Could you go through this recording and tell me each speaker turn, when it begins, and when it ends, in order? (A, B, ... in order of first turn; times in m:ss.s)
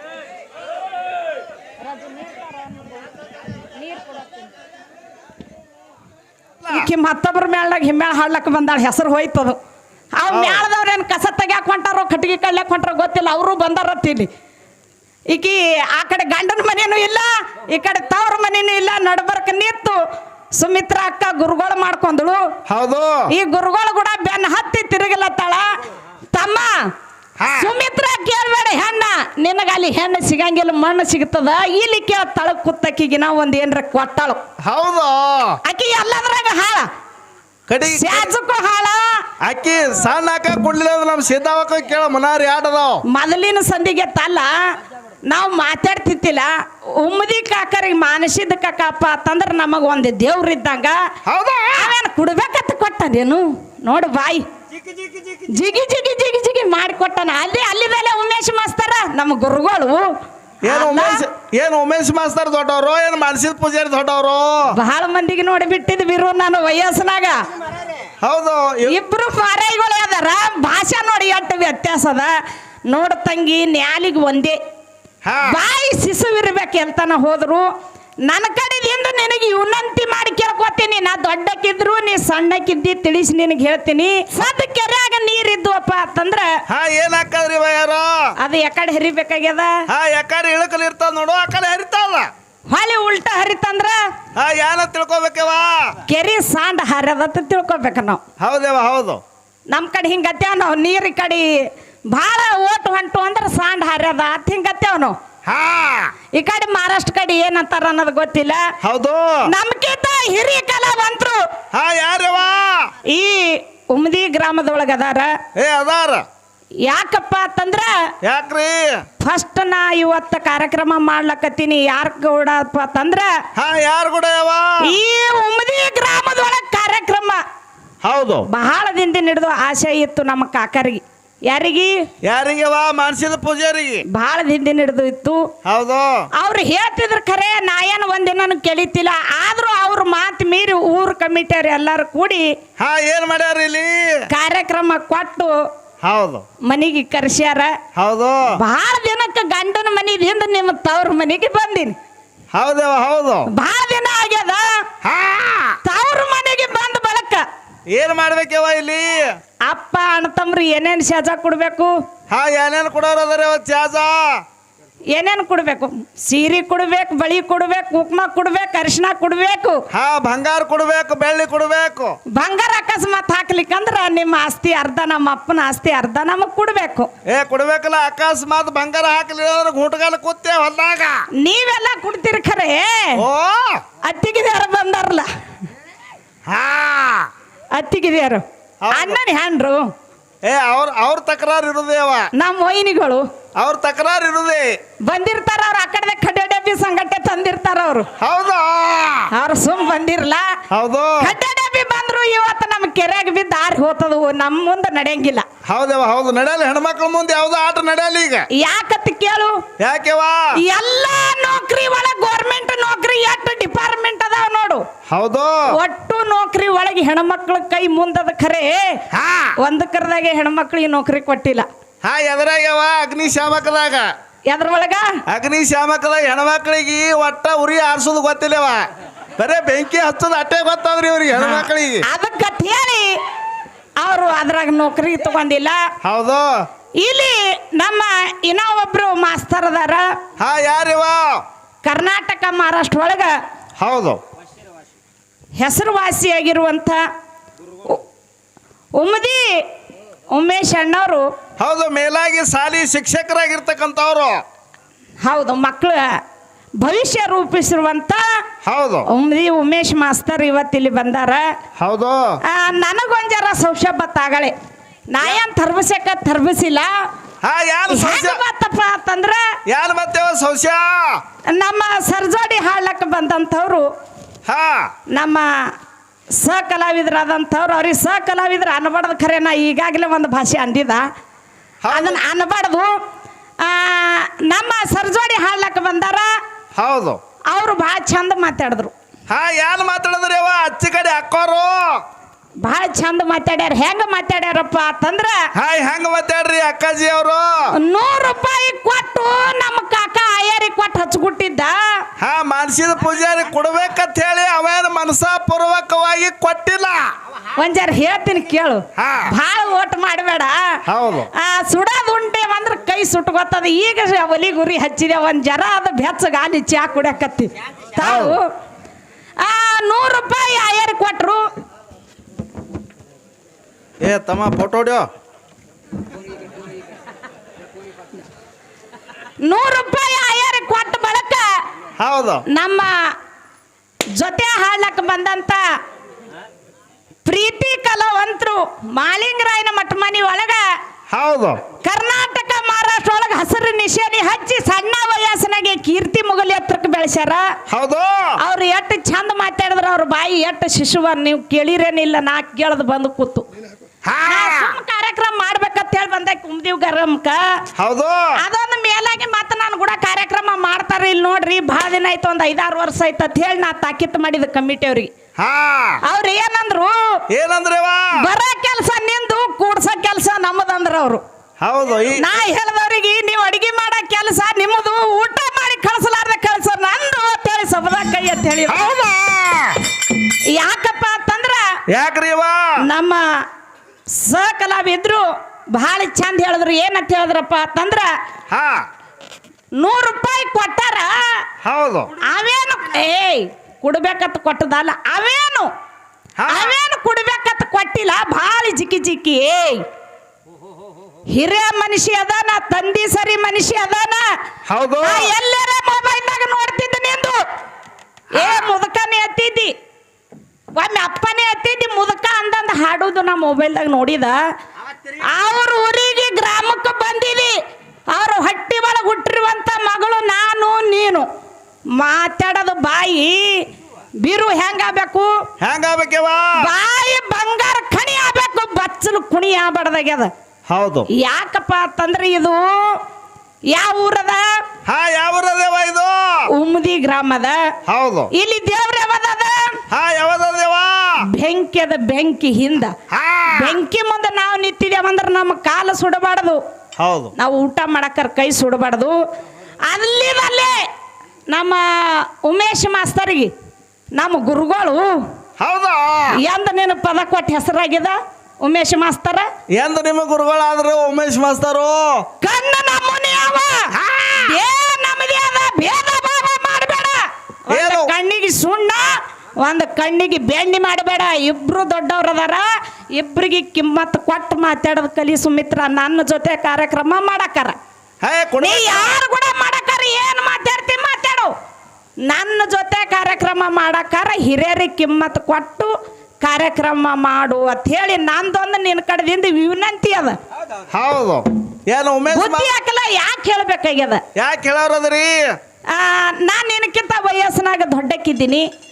0:02.0-0:02.9 A
0:03.8-0:04.4 A
0:06.6-0:06.9 B
0:06.7-0:09.6 A
0:10.2-0:14.3 A
0:10.3-0:10.7 B
0:15.3-0:20.0 A
0:20.6-0:22.4 A
0:22.7-0:23.3 B
0:23.3-0:25.7 A
0:26.3-0:26.9 A
0:27.4-0:27.7 B
0:27.5-0:34.4 A
0:34.6-0:35.6 B
0:35.7-0:36.9 A
0:37.7-0:38.3 B
0:37.9-0:39.2 A
0:39.4-0:43.0 B
0:43.1-0:44.5 A
0:45.3-0:51.0 A
0:51.3-0:51.9 B
0:51.8-0:54.4 A
0:55.4-1:00.0 A
1:00.6-1:01.2 A
1:00.6-1:04.7 B
1:04.7-1:07.4 A
1:08.2-1:09.0 B
1:08.9-1:12.3 A
1:12.9-1:14.6 A
1:15.2-1:15.6 B
1:15.4-1:17.7 A
1:18.3-1:26.5 A
1:26.7-1:28.2 B
1:28.4-1:29.7 A
1:29.9-1:32.3 B
1:32.7-1:34.0 A
1:34.4-1:36.0 B
1:36.1-1:38.2 A
1:38.4-1:39.2 B
1:39.7-1:45.2 A
1:45.5-1:46.1 B
1:46.4-1:48.6 A
1:48.8-1:49.4 B
1:49.5-1:51.4 A
1:51.7-1:52.9 B
1:53.1-1:55.4 A
1:55.6-1:56.2 B
1:56.9-1:57.9 A
1:58.2-1:59.0 B
1:59.2-2:03.3 A
2:03.6-2:04.8 B
2:04.8-2:07.4 A
2:08.0-2:08.5 B
2:08.5-2:12.0 A
2:12.2-2:14.0 B
2:14.1-2:15.5 A
2:15.6-2:16.3 B
2:16.4-2:22.5 A
2:22.8-2:24.2 B
2:24.3-2:25.6 A
2:26.0-2:26.4 B
2:26.7-2:27.8 A
2:28.0-2:28.6 B
2:28.6-2:32.0 A
2:32.5-2:33.5 B
2:33.5-2:34.7 A
2:35.0-2:35.8 B
2:35.8-2:37.4 A
2:37.9-2:39.2 B
2:39.7-2:41.9 A
2:42.3-2:44.4 B
2:45.1-2:49.8 A
2:49.9-2:52.2 B
2:52.3-2:57.1 A
2:57.3-3:01.2 B
3:01.4-3:03.2 A
3:03.2-3:03.8 B
3:04.0-3:05.3 A
3:06.5-3:07.3 B
3:07.7-3:09.9 A
3:08.8-3:09.2 B
3:10.4-3:12.3 B
3:12.4-3:13.2 A
3:13.6-3:14.7 B
3:15.1-3:18.1 A
3:18.2-3:19.3 B
3:19.3-3:20.5 A
3:20.7-3:21.4 B
3:21.2-3:25.5 A
3:25.7-3:28.5 B
3:28.6-3:29.6 A
3:29.8-3:30.4 B
3:30.6-3:34.8 A
3:35.1-3:35.6 B
3:35.7-3:39.0 A
3:39.1-3:39.5 B
3:39.6-3:41.7 A
3:42.0-3:44.1 B
3:44.5-3:45.1 A
3:45.3-3:48.9 B
3:49.4-3:52.0 B
3:51.4-3:53.2 A
3:54.0-3:55.8 A
3:56.0-3:56.5 B
3:57.0-4:00.0 A
4:00.4-4:01.4 B
4:01.8-4:03.4 A
4:03.8-4:04.2 B
4:05.6-4:07.0 A
4:09.0-4:09.6 A
4:10.3-4:11.2 A
4:11.6-4:14.4 B
4:15.2-4:16.2 A
4:16.8-4:18.2 A
4:18.6-4:19.1 B
4:19.1-4:21.5 A
4:21.8-4:22.4 B
4:22.5-4:24.5 A
4:25.1-4:26.9 A
4:27.4-4:28.4 B
4:27.9-4:29.5 A
4:29.7-4:31.2 B
4:31.5-4:33.9 A
4:34.5-4:34.9 B
4:35.1-4:35.7 A
4:36.3-4:41.0 A
4:41.8-4:42.2 B
4:41.9-4:42.9 A
4:43.6-4:46.3 A
4:46.8-4:47.2 B
4:47.5-4:48.9 A
4:49.3-4:52.0 B
4:52.6-4:55.4 A
4:55.6-4:57.5 B
4:57.8-5:02.0 A
5:02.2-5:07.0 B
5:07.6-5:10.8 A
5:09.0-5:09.3 B
5:10.9-5:11.3 B
5:11.4-5:18.5 A
5:18.0-5:18.4 B
5:19.4-5:21.4 A
5:24.0-5:25.1 B
5:29.4-5:31.5 A
5:32.0-5:32.4 B
5:32.5-5:33.1 A
5:34.2-5:35.6 A
5:37.2-5:40.6 A
5:41.1-5:41.6 B
5:41.8-5:47.5 A
5:47.7-5:48.4 B
5:48.4-5:53.5 A
5:54.1-5:54.8 B
5:54.2-5:57.4 A
5:57.8-5:58.4 B
5:58.4-6:05.1 A
6:05.4-6:06.0 B
6:06.1-6:07.0 A
6:07.3-6:08.2 B
6:08.2-6:11.2 A
6:11.6-6:12.2 B
6:12.2-6:18.9 A
6:18.7-6:19.8 B
6:20.5-6:21.7 A
6:21.9-6:22.8 B
6:22.8-6:23.2 A
6:24.1-6:28.1 A
6:28.5-6:28.8 B
6:29.8-6:31.4 A
6:31.6-6:32.1 B
6:32.2-6:35.7 A
6:36.4-6:36.8 B
6:36.5-6:39.8 A
6:41.3-6:44.3 A
6:44.7-6:45.3 B
6:45.0-6:47.4 A
6:48.4-6:49.7 A
6:48.4-6:48.6 B
6:50.8-6:54.4 A
6:55.2-6:57.6 A
6:58.1-7:01.3 A
7:02.0-7:03.7 A
7:04.2-7:05.3 A
7:05.6-7:06.5 B
7:06.6-7:10.3 A
7:10.7-7:11.1 B
7:11.1-7:13.0 A
7:13.7-7:14.4 A
7:14.9-7:16.5 B
7:16.5-7:17.6 A
7:17.9-7:18.3 B
7:18.3-7:19.8 A
7:19.9-7:21.2 B
7:21.2-7:23.0 A
7:23.1-7:23.8 B
7:23.5-7:26.6 A
7:27.0-7:27.3 B
7:27.4-7:29.2 A
7:29.9-7:30.8 A
7:31.5-7:33.5 A
7:34.2-7:35.2 A
7:35.6-7:36.4 B
7:36.4-7:39.5 A
7:39.8-7:42.2 B
7:42.4-7:43.9 A
7:44.0-7:44.5 B
7:44.4-7:57.8 A
7:47.7-7:48.1 B
7:58.2-7:59.2 B
7:58.6-8:01.5 A
8:02.3-8:10.4 A
8:10.9-8:12.7 B
8:12.3-8:14.2 A
8:14.4-8:15.4 B
8:15.9-8:18.7 A